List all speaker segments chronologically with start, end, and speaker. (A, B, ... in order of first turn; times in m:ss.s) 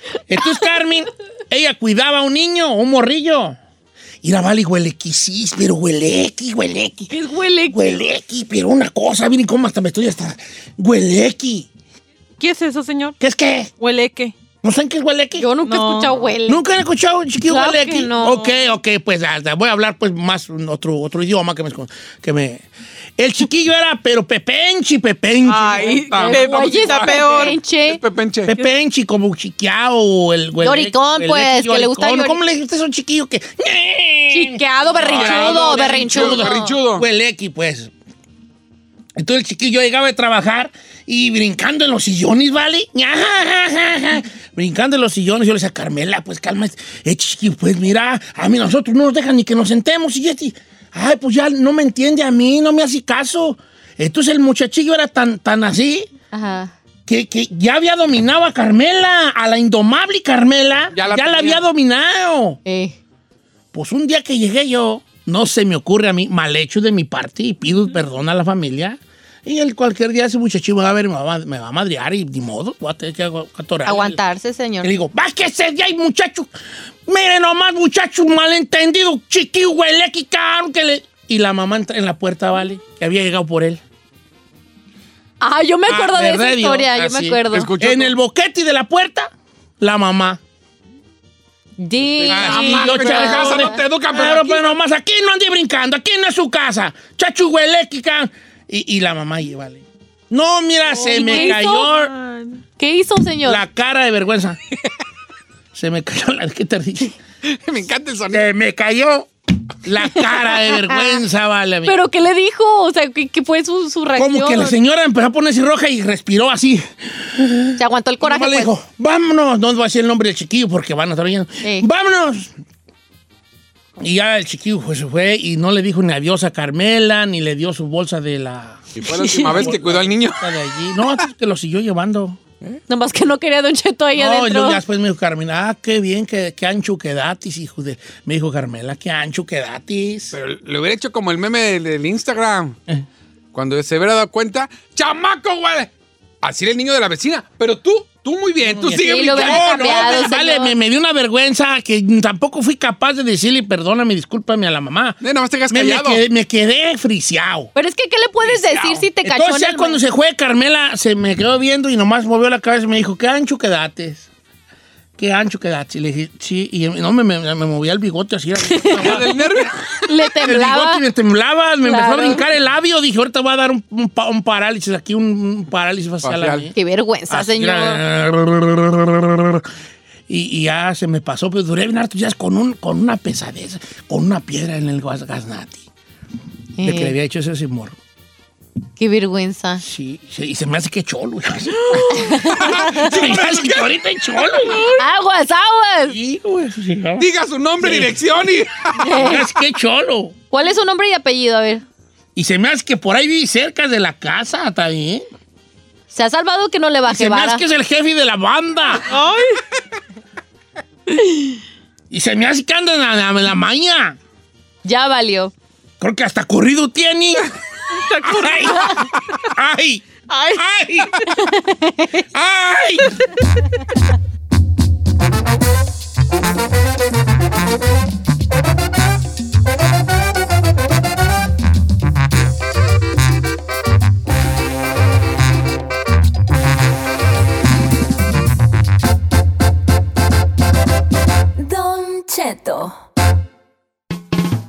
0:00.3-0:03.6 A
0:04.2-0:07.1 A
0:07.1-0:08.0 B
0:07.7-0:11.7 A
0:12.4-0:13.2 C
0:13.2-0:13.7 A
0:13.8-0:14.3 C
0:14.6-0:15.5 A
0:15.4-0:16.6 B
0:15.6-0:16.2 C
0:16.4-0:26.0 A
0:17.5-0:18.4 B
0:25.4-0:27.6 C
0:25.8-0:28.5 D
0:26.1-0:28.0 B
0:28.4-0:37.9 A
0:30.6-0:32.4 B
0:34.3-0:36.7 B
0:35.0-0:37.0 D
0:39.2-0:56.1 A
0:56.3-0:56.7 B
0:57.1-1:02.6 A
1:00.9-1:01.6 D
1:02.6-1:02.9 B
1:03.7-1:14.2 A
1:13.8-1:14.9 B
1:14.8-1:16.5 A
1:17.0-1:23.8 A
1:25.4-1:27.7 B
1:25.9-1:30.4 A
1:27.5-1:28.2 D
1:31.8-1:33.7 B
1:32.2-1:34.6 D
1:32.3-1:42.1 A
1:40.9-1:41.9 B
1:41.0-1:42.6 C
1:42.8-1:43.6 B
1:43.4-1:44.6 A
1:45.7-1:47.2 A
1:47.4-1:48.4 D
1:48.3-1:49.3 A
1:49.8-1:52.0 A
1:50.7-1:51.2 B
1:51.8-1:54.8 B
1:54.2-2:02.5 A
1:57.8-1:58.7 B
2:01.6-2:01.9 B
2:04.0-2:12.4 A
2:08.9-2:10.5 D
2:09.1-2:09.7 B
2:12.9-2:14.8 B
2:14.1-2:20.4 A
2:20.3-2:22.8 D
2:23.5-2:25.9 D
2:26.4-2:30.2 D
2:28.6-2:35.2 A
2:28.9-2:30.7 B
2:35.2-2:36.2 D
2:35.7-2:37.7 A
2:37.7-2:40.0 B
2:38.4-2:39.0 D
2:39.2-2:44.3 A
2:45.2-2:49.7 A
2:48.7-2:49.2 B
2:48.8-2:50.1 D
2:50.1-2:51.0 B
2:50.4-2:56.7 A
2:51.8-2:52.4 B
2:56.2-2:56.7 D
2:56.7-2:58.0 B
2:57.3-2:59.7 A
3:00.3-3:05.8 A
3:06.8-3:07.1 B
3:06.8-3:08.0 A
3:09.0-3:09.8 B
3:09.8-3:14.8 A
3:11.9-3:14.7 D
3:12.1-3:13.0 B
3:15.0-3:16.2 B
3:16.0-3:17.2 A
3:17.2-3:19.3 D
3:17.8-3:18.2 A
3:19.0-3:19.4 B
3:19.0-3:20.3 A
3:20.5-3:21.8 B
3:22.3-3:25.2 A
3:26.1-3:27.6 B
3:27.1-3:29.1 A
3:29.1-3:29.6 C
3:31.3-3:31.5 B
3:32.1-3:34.2 A
3:34.8-3:35.5 B
3:36.0-3:37.5 A
3:37.9-3:39.1 C
3:38.2-3:41.2 A
3:40.3-3:40.6 C
3:41.3-3:42.2 B
3:42.3-3:43.3 A
4:01.6-4:03.0 B